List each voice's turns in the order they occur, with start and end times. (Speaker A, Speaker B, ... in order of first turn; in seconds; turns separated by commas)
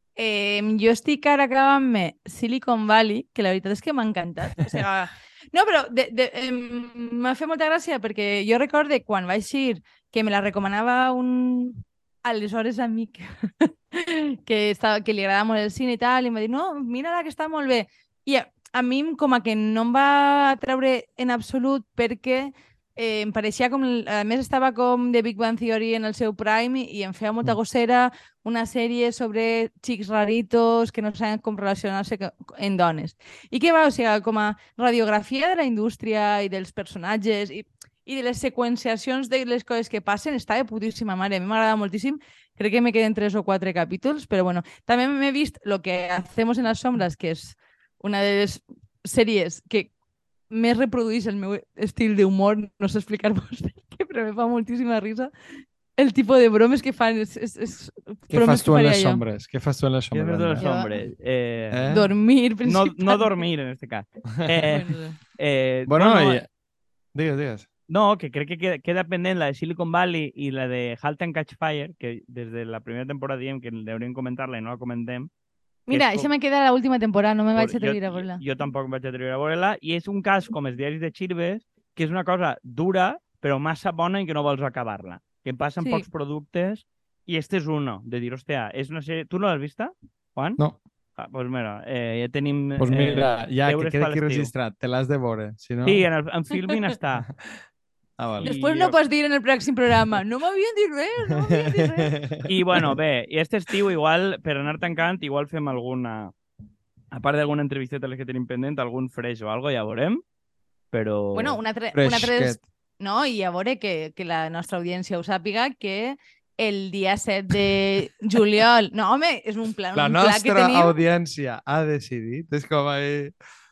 Speaker A: 0.2-49.9, Speaker A: 50.5-55.3, Speaker A: 56.0-59.2, Speaker B: 58.3-60.7, Speaker C: 60.1-62.1, Speaker A: 60.6-60.9, Speaker B: 61.7-62.0, Speaker A: 61.9-63.4, Speaker C: 62.6-66.4, Speaker B: 64.4-64.7, Speaker A: 64.7-65.2, Speaker B: 65.9-66.5, Speaker B: 67.1-67.7, Speaker C: 67.9-75.3, Speaker A: 75.9-78.4, Speaker C: 75.9-76.3, Speaker C: 77.6-90.6, Speaker C: 91.2-94.5, Speaker B: 92.8-96.1, Speaker C: 95.8-97.3, Speaker B: 98.2-98.5, Speaker C: 98.4-99.0, Speaker A: 98.4-102.1, Speaker B: 101.5-102.9, Speaker C: 102.5-106.3, Speaker C: 107.1-110.2, Speaker C: 110.9-111.6, Speaker A: 111.3-120.9, Speaker B: 112.0-112.6, Speaker B: 119.9-123.3